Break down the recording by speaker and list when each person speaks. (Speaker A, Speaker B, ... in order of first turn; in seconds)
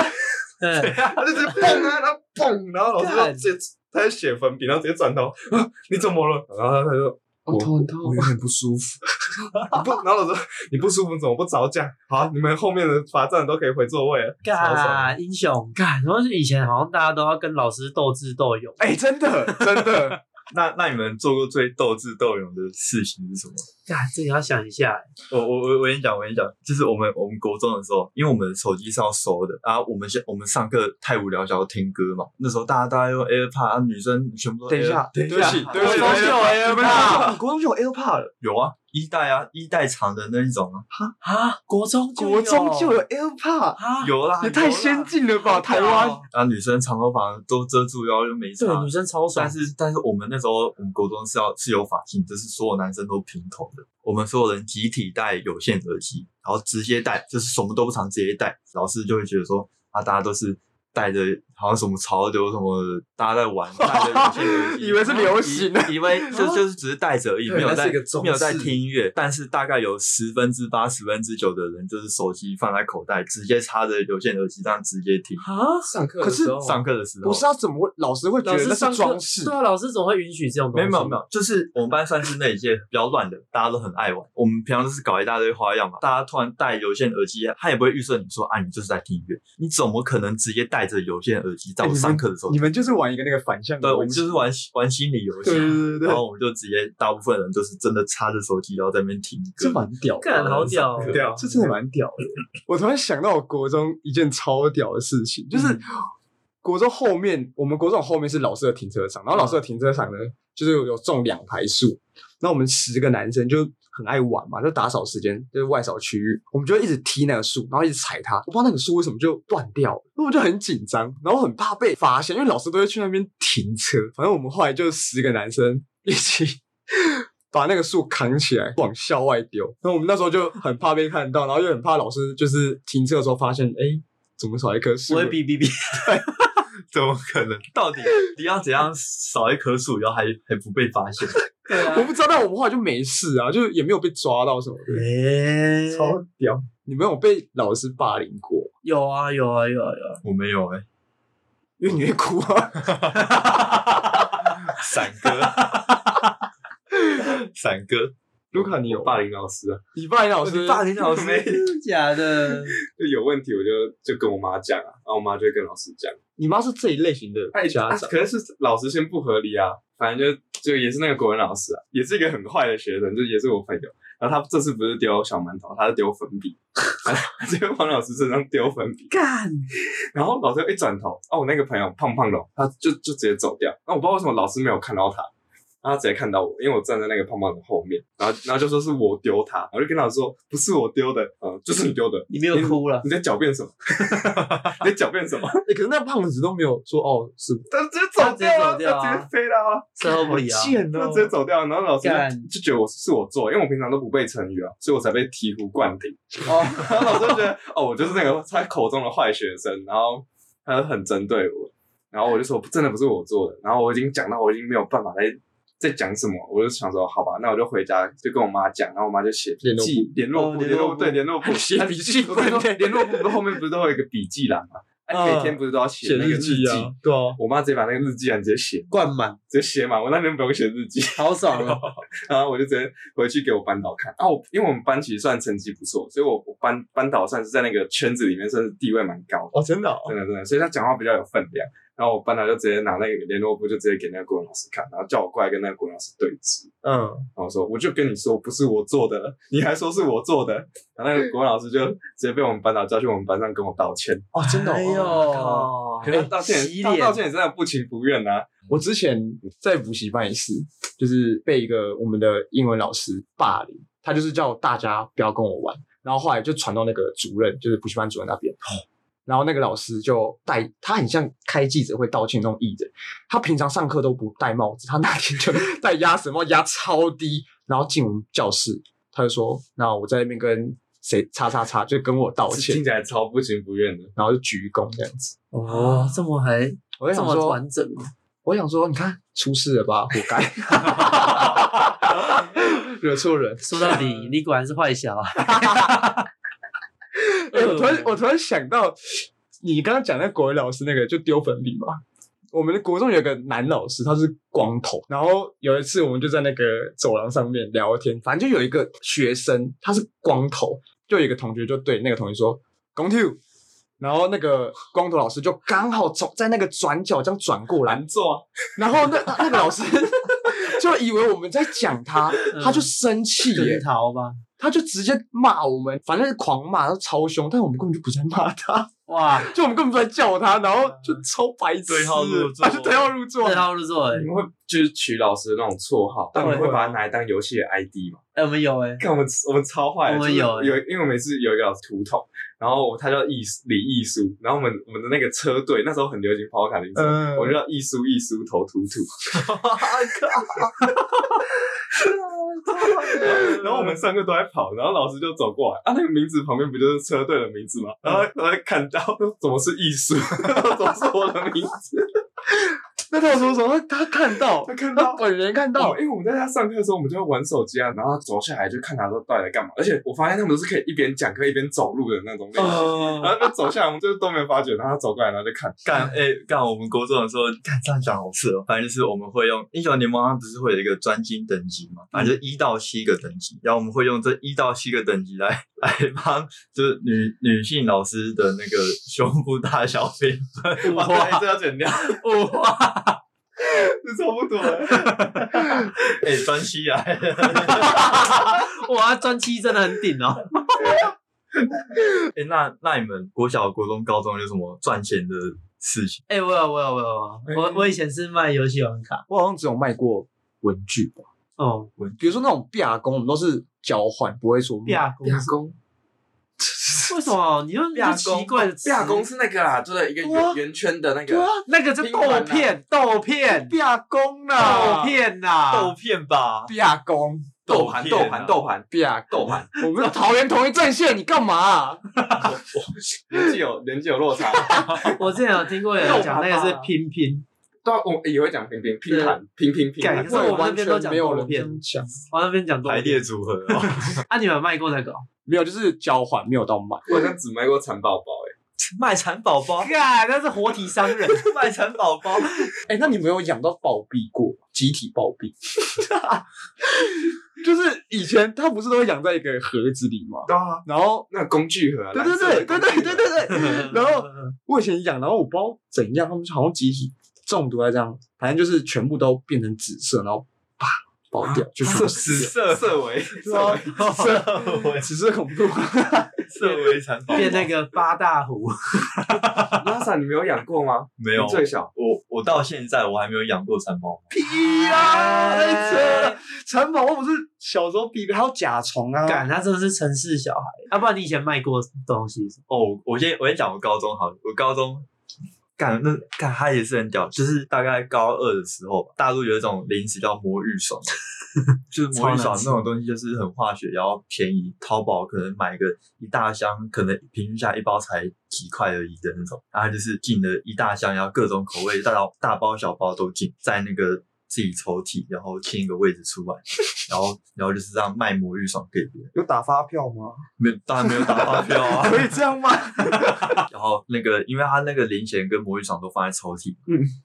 Speaker A: 0.6-1.6, 3.0-3.5, 14.4-18.8, 23.9-25.1, 35.6-37.3, 41.2-43.0, 43.8-44.1, 45.4-46.2, 48.6-49.6, 75.4-75.9, 78.4-81.2, 100.2-101.2, 135.1-136.2, 141.7-142.1, 144.9-146.2, 148.8-150.2, 161.4-162.8, 179.1-179.7, 192.3-193.1, 198.2-199.3, 200.0-200.8, 202.0-202.5, 228.9-229.4, 231.2-231.8, 254.4-257.2, 285.6-288.1, 293.6-296.2, 297.5-298.1, 322.5-322.9, 323.5-324.4, 329.1-329.5, 333.4-334.3, 336.3-336.7, 338.3-339.0, 340.0-340.8, 390.8-391.5, 392.0-393.2, 397.7-401.0, 406.3-409.2, 411.6-411.9, 414.9-415.5, 417.1-419.2, 421.7-423.7, 424.5-425.9, 435.1-437.4, 439.1-439.4, 440.0-443.2, 444.2-445.2, 449.8-451.4, 477.3-479.3, 484.6-486.4, 489.2-492.6, 502.1-502.9
Speaker B: 0.8-8.3, 9.6-15.1, 35.3-37.2, 75.8-76.8, 101.0-101.5, 158.5-159.8, 160.7-161.7, 162.4-166.2, 167.5-179.1, 180.1-185.3, 185.8-195.6, 197.7-199.9, 200.9-228.9, 229.5-246.7, 247.3-254.3, 254.9-258.6, 282.5-284.1, 317.9-318.4, 334.1-338.2, 339.0-349.6, 352.0-362.1, 364.6-365.2, 365.7-375.9, 390.8-392.2, 393.6-395.9, 415.2-415.7, 418.8-422.8, 427.7-429.8, 432.4-435.2, 436.0-436.9, 437.8-440.6, 447.1-448.5, 460.5-463.9, 471.4-473.9, 479.8-481.9
Speaker C: 7.5-9.8, 18.8-20.2, 34.7-38.3, 42.1-43.8, 44.4-46.2, 63.8-66.5, 67.5-68.7, 76.2-76.6, 77.2-79.5, 91.8-94.5, 95.4-96.2, 99.6-105.9, 106.6-135.4, 141.3-145.0, 145.9-148.7, 151.8-153.8, 158.5-159.2, 159.9-160.9, 166.4-168.1, 195.6-197.7, 200.1-201.3, 206.4-207.1, 219.6-223.4, 225.1-227.4, 239.5-240.2, 246.8-247.3, 254.3-256.2, 258.7-268.6, 269.2-282.8, 284.2-286.2, 287.0-287.6, 288.4-294.3, 295.4-296.1, 297.1-302.0, 302.5-313.4, 314.0-318.0, 318.8-323.8, 324.6-333.7, 336.3-337.0, 346.9-347.6, 363.1-366.0, 409.3-411.2, 412.2-415.1, 416.6-417.3, 420.2-420.6, 421.3-421.7, 423.5-425.2, 426.6-432.5, 434.4-435.2, 440.1-442.1, 445.4-447.2, 452.8-461.3, 462.1-472.5, 473.5-476.5, 484.3-489.4, 519.3-520.4, 521.0-523.6
Speaker D: 20.5-23.7, 25.3-37.4, 38.4-40.9, 44.0-45.1, 46.2-75.4, 76.6-77.4, 80.7-92.7, 93.8-101.4, 136.9-141.4, 150.2-150.8, 154.5-156.0, 157.1-158.1, 160.4-161.6, 331.9-333.1, 349.4-350.7, 352.8-353.4, 375.8-391.1, 396.0-398.4, 402.2-406.2, 412.0-412.4, 417.9-418.6, 425.7-426.7, 442.8-444.2, 448.8-449.9, 451.3-452.6, 471.8-472.8, 473.4-475.1, 476.5-477.7, 479.3-479.8, 481.2-484.2, 492.7-495.1, 495.8-501.1, 501.9-519.3, 520.6-522.4, 523.5-526.8